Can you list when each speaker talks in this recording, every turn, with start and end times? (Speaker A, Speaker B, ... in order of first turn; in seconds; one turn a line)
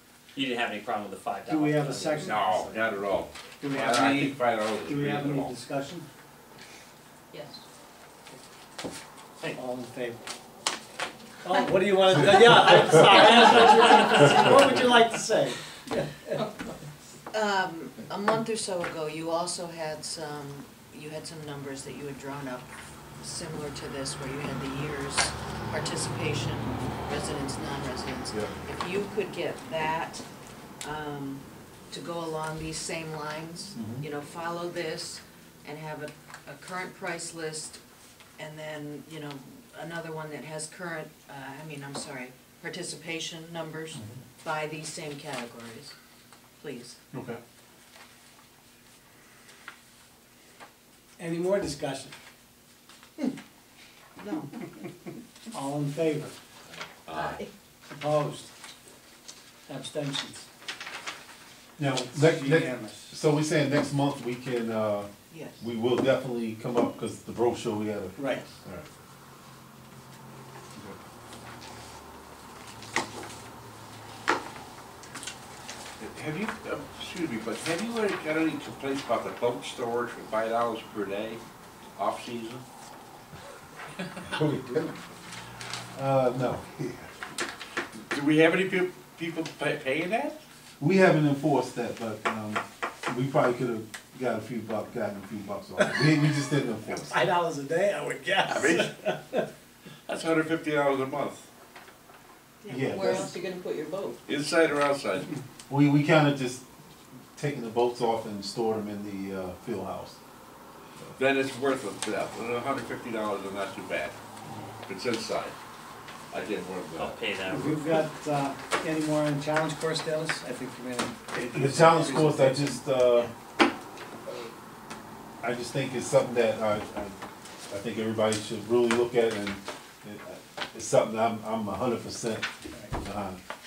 Speaker A: 0.3-2.4
Speaker B: 1.5-2.8
Speaker C: 2.2-5.5
Speaker B: 3.6-6.1
Speaker D: 7.3-7.6
Speaker B: 9.5-10.2
Speaker B: 11.4-16.4
Speaker D: 17.3-22.7
Speaker D: 23.2-30.2
Speaker D: 30.8-37.8
Speaker E: 33.8-34.0
Speaker D: 38.4-45.9
Speaker D: 46.6-47.0
Speaker E: 47.1-47.4
Speaker B: 51.2-52.1
Speaker D: 54.2-54.5
Speaker B: 55.5-56.3
Speaker C: 57.1-57.4
Speaker D: 57.1-57.5
Speaker B: 57.9-58.5
Speaker B: 59.7-60.5
Speaker E: 61.8-68.8
Speaker B: 61.9-63.1
Speaker D: 65.3-65.6
Speaker B: 68.2-68.5
Speaker C: 76.0-81.4
Speaker C: 82.0-82.6
Speaker E: 84.2-84.9
Speaker B: 84.7-84.9
Speaker E: 85.9-87.1
Speaker C: 88.1-90.4
Speaker E: 90.8-97.1
Speaker B: 96.9-99.5
Speaker C: 98.5-98.9
Speaker C: 100.1-101.5
Speaker D: 102.6-104.2
Speaker E: 102.7-103.3
Speaker C: 104.2-105.3
Speaker E: 105.7-106.7
Speaker E: 107.3-110.2
Speaker C: 111.2-114.2
Speaker C: 114.8-115.5
Speaker C: 116.3-117.2
Speaker A: 116.9-118.0
Speaker B: 117.5-123.3
Speaker E: 121.5-123.3
Speaker E: 125.4-133.4
Speaker B: 132.7-133.0